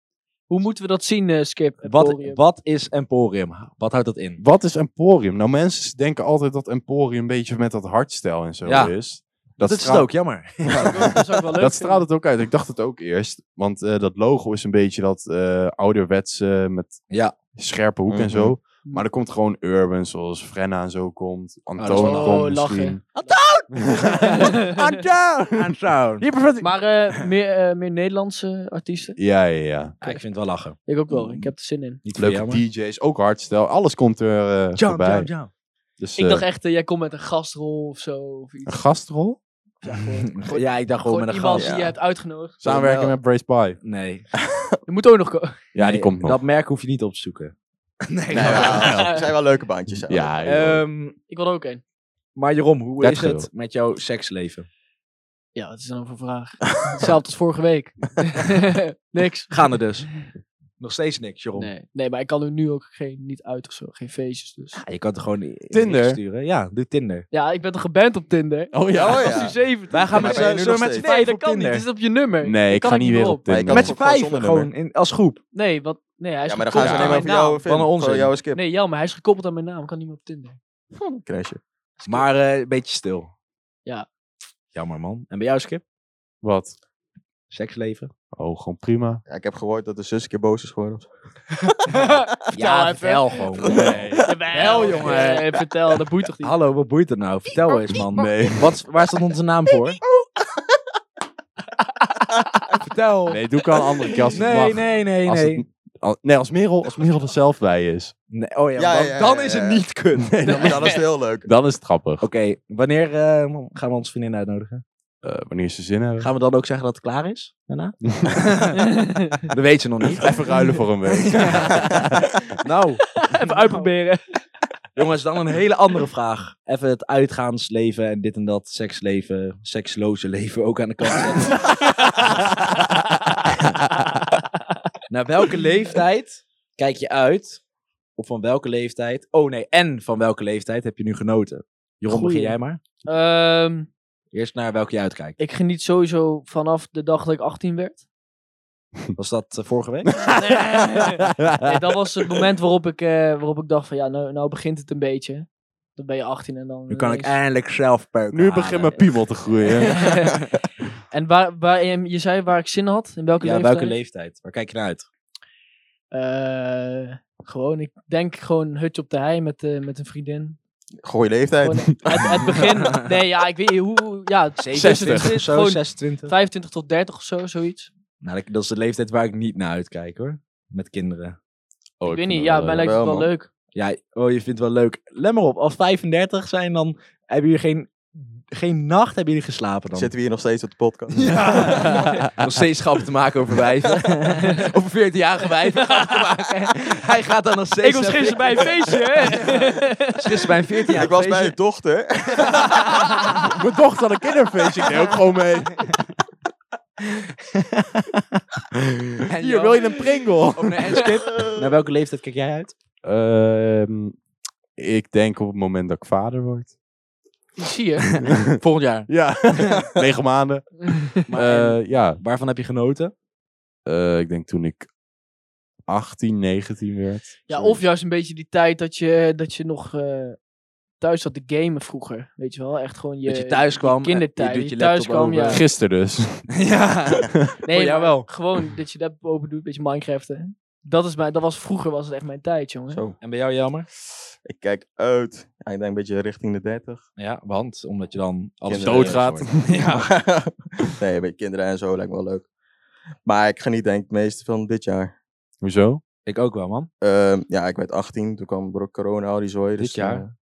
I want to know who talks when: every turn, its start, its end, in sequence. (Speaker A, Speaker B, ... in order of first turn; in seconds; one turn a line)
Speaker A: 0.5-2.4
Speaker B: 1.8-4.4
Speaker C: 4.4-17.0
Speaker B: 8.7-8.9
Speaker B: 9.6-11.1
Speaker A: 10.7-12.1
Speaker C: 17.6-23.0
Speaker D: 18.1-18.5
Speaker B: 21.8-22.4
Speaker A: 21.9-23.3
Speaker B: 23.1-24.6
Speaker C: 23.7-26.7
Speaker A: 24.3-24.9
Speaker B: 25.5-26.3
Speaker A: 26.6-29.2
Speaker C: 29.2-29.9
Speaker B: 30.0-30.8
Speaker A: 30.9-32.0
Speaker B: 32.0-32.6
Speaker C: 32.1-35.3
Speaker B: 34.8-35.5
Speaker C: 36.0-36.5
Speaker A: 36.1-38.8
Speaker C: 38.6-39.4
Speaker A: 39.8-42.6
Speaker B: 39.9-41.9
Speaker D: 41.5-41.9
Speaker C: 42.6-43.8
Speaker B: 42.6-43.1
Speaker B: 43.8-44.3
Speaker D: 44.5-44.8
Speaker A: 44.9-45.6
Speaker C: 45.7-46.4
Speaker B: 45.8-47.5
Speaker B: 48.0-49.0
Speaker C: 48.3-49.1
Speaker D: 48.3-50.4
Speaker A: 48.9-49.2
Speaker C: 50.1-50.8
Speaker B: 50.4-51.1
Speaker A: 51.3-51.8
Speaker B: 52.4-54.7
Speaker C: 53.0-53.5
Speaker A: 55.5-60.2
Speaker B: 59.5-60.1
Speaker B: 60.8-61.7
Speaker A: 61.6-64.8
Speaker B: 64.8-67.3
Speaker C: 65.7-66.2
Speaker A: 67.3-73.4
Speaker C: 68.7-69.4
Speaker D: 69.0-69.5
Speaker B: 69.9-71.8
Speaker D: 70.1-71.1
Speaker C: 72.4-73.9
Speaker D: 73.5-74.7
Speaker B: 73.7-75.4
Speaker A: 75.5-77.6
Speaker D: 76.5-78.6
Speaker C: 76.8-77.2
Speaker B: 77.2-78.3
Speaker A: 78.5-80.6
Speaker D: 80.9-81.6
Speaker B: 82.0-83.3
Speaker B: 84.7-85.8
Speaker C: 86.4-86.7
Speaker B: 87.5-88.1
Speaker C: 88.3-89.2
Speaker D: 89.3-92.1
Speaker A: 91.9-96.5
Speaker B: 92.5-95.4
Speaker C: 93.7-95.1
Speaker D: 93.7-95.3
Speaker B: 96.4-100.0
Speaker A: 97.7-98.0
Speaker C: 98.1-98.7
Speaker B: 102.7-103.4
Speaker C: 103.3-108.1
Speaker B: 104.3-105.6
Speaker B: 108.3-110.3
Speaker D: 108.8-109.8
Speaker C: 110.2-112.2
Speaker D: 110.4-111.5
Speaker B: 112.2-114.8
Speaker C: 115.2-116.3
Speaker B: 116.2-118.9
Speaker A: 118.8-119.4
Speaker B: 119.5-120.3
Speaker C: 120.1-122.5
Speaker B: 121.3-122.0
Speaker B: 122.6-123.2
Speaker A: 123.2-124.2
Speaker B: 124.9-131.7
Speaker C: 132.6-133.4
Speaker B: 135.1-137.6
Speaker B: 138.2-142.8
Speaker A: 142.1-143.9
Speaker B: 144.3-145.4
Speaker A: 145.4-148.0
Speaker B: 149.1-150.1
Speaker A: 150.3-157.4
Speaker C: 151.2-151.8
Speaker B: 156.9-159.2
Speaker C: 158.3-160.2
Speaker A: 159.6-160.4
Speaker B: 159.9-160.3
Speaker A: 161.1-163.9
Speaker B: 163.4-165.1
Speaker A: 166.1-170.6
Speaker D: 171.0-172.5
Speaker A: 171.6-177.9
Speaker B: 174.6-176.3
Speaker C: 174.8-175.4
Speaker B: 178.2-181.4
Speaker C: 182.0-183.0
Speaker A: 182.1-183.5
Speaker D: 182.8-183.3
Speaker B: 183.7-190.1
Speaker D: 189.9-191.9
Speaker B: 191.1-201.6
Speaker C: 191.7-192.5
Speaker A: 191.8-192.2
Speaker A: 197.8-200.4
Speaker D: 200.9-203.1
Speaker B: 202.5-203.0
Speaker C: 203.3-206.1
Speaker B: 207.1-208.4
Speaker C: 208.9-211.1
Speaker B: 209.3-212.7
Speaker D: 211.3-211.7
Speaker C: 213.0-214.2
Speaker C: 214.8-216.7
Speaker A: 217.6-218.1
Speaker B: 218.1-219.1
Speaker C: 218.2-222.2
Speaker B: 221.2-223.1
Speaker C: 223.9-224.9
Speaker C: 225.9-227.8
Speaker A: 227.5-230.4
Speaker A: 231.0-235.6
Speaker B: 233.2-235.6
Speaker C: 235.4-236.5
Speaker B: 236.5-238.3
Speaker A: 237.7-243.0
Speaker D: 242.9-243.2
Speaker B: 243.2-243.9
Speaker D: 244.4-247.0
Speaker B: 247.2-250.1
Speaker D: 248.7-249.3
Speaker C: 248.7-249.5
Speaker D: 249.8-252.5
Speaker D: 253.2-255.1
Speaker C: 255.6-256.0
Speaker B: 256.2-256.9
Speaker D: 257.0-260.3
Speaker B: 259.8-260.2